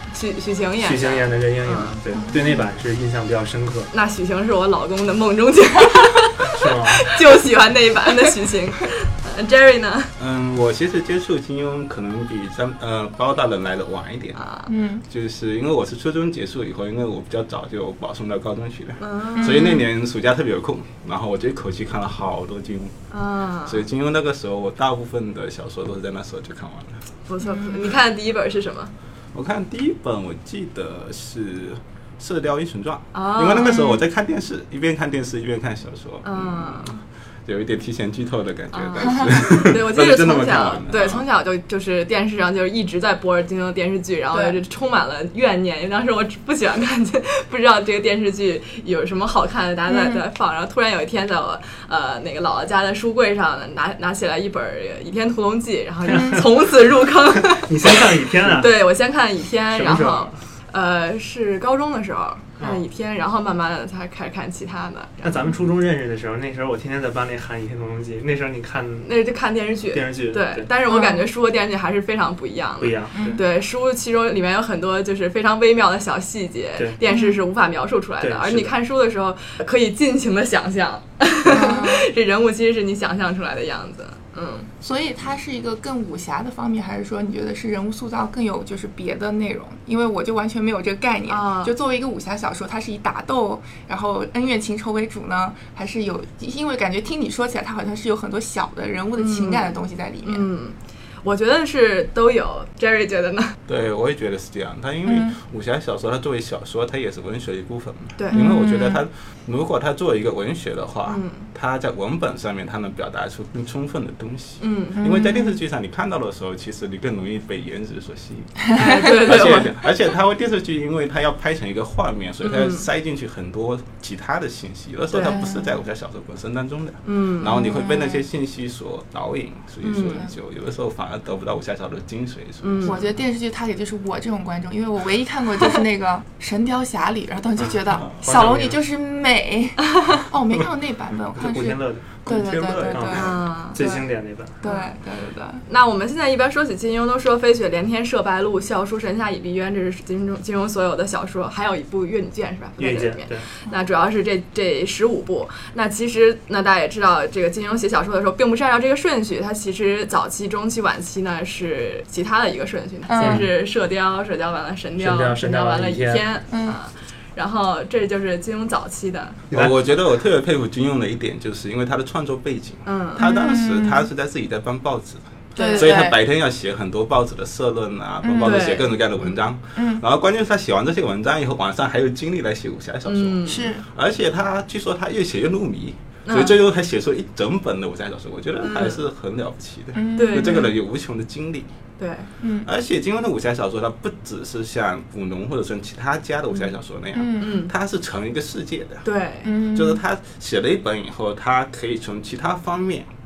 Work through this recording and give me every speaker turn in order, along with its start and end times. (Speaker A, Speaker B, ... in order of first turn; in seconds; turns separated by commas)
Speaker A: 0.1-2.0, Speaker B: 0.8-3.9, Speaker C: 2.1-2.6, Speaker A: 3.9-10.1, Speaker B: 6.5-7.2, Speaker D: 10.2-14.4, Speaker A: 14.4-14.7, Speaker C: 14.7-15.0, Speaker D: 15.1-22.9, Speaker A: 19.0-19.8, Speaker C: 19.4-19.8, Speaker A: 23.1-23.9, Speaker D: 23.7-27.0, Speaker A: 27.3-28.9, Speaker C: 27.4-27.8, Speaker D: 29.3-41.2, Speaker A: 33.1-33.9, Speaker C: 33.7-34.0, Speaker A: 36.2-37.0, Speaker A: 38.7-65.5, Speaker C: 44.3-44.6, Speaker C: 49.9-50.2, Speaker C: 56.1-56.5, Speaker B: 56.1-56.5, Speaker B: 57.3-58.7, Speaker B: 59.7-60.4, Speaker B: 62.6-62.9, Speaker B: 65.2-69.1, Speaker A: 69.0-84.7, Speaker B: 69.9-70.7, Speaker C: 70.9-71.3, Speaker B: 72.8-73.4, Speaker C: 73.2-73.4, Speaker C: 77.1-77.4, Speaker B: 78.2-78.7, Speaker C: 81.5-82.1, Speaker C: 84.8-100.5, Speaker A: 91.3-91.7, Speaker A: 99.2-103.6, Speaker D: 103.7-133.0, Speaker C: 105.1-105.3, Speaker A: 108.2-108.9, Speaker C: 108.3-109.0, Speaker A: 111.1-111.5, Speaker A: 114.6-115.1, Speaker C: 115.0-115.6, Speaker A: 118.7-119.8, Speaker A: 122.4-122.9, Speaker A: 125.1-125.4, Speaker C: 125.2-125.7, Speaker A: 127.0-127.7, Speaker C: 127.5-128.2, Speaker A: 129.8-130.3, Speaker A: 132.6-133.0, Speaker C: 132.8-144.1, Speaker B: 137.6-138.8, Speaker B: 141.4-142.1, Speaker D: 142.2-143.5, Speaker B: 142.9-144.6, Speaker A: 143.2-143.8, Speaker C: 144.6-145.6, Speaker A: 144.6-145.0, Speaker A: 145.7-169.4, Speaker B: 152.8-153.5, Speaker C: 163.1-163.5, Speaker B: 163.2-163.5, Speaker B: 165.0-166.3, Speaker C: 166.5-166.8, Speaker D: 169.5-191.7, Speaker A: 172.9-173.4, Speaker C: 173.2-174.1, Speaker A: 175.6-176.1, Speaker C: 175.6-176.2, Speaker C: 178.2-178.7, Speaker A: 178.4-179.3, Speaker C: 179.8-180.1, Speaker A: 183.1-183.8, Speaker C: 183.5-183.9, Speaker A: 186.3-186.6, Speaker A: 188.6-189.0, Speaker C: 189.9-190.7, Speaker A: 190.2-190.7, Speaker A: 192.0-192.3, Speaker C: 192.4-192.7, Speaker D: 192.6-199.1, Speaker A: 196.5-196.8, Speaker C: 197.1-197.6, Speaker A: 197.4-197.7, Speaker A: 199.1-199.5, Speaker C: 199.4-200.0, Speaker D: 199.6-203.1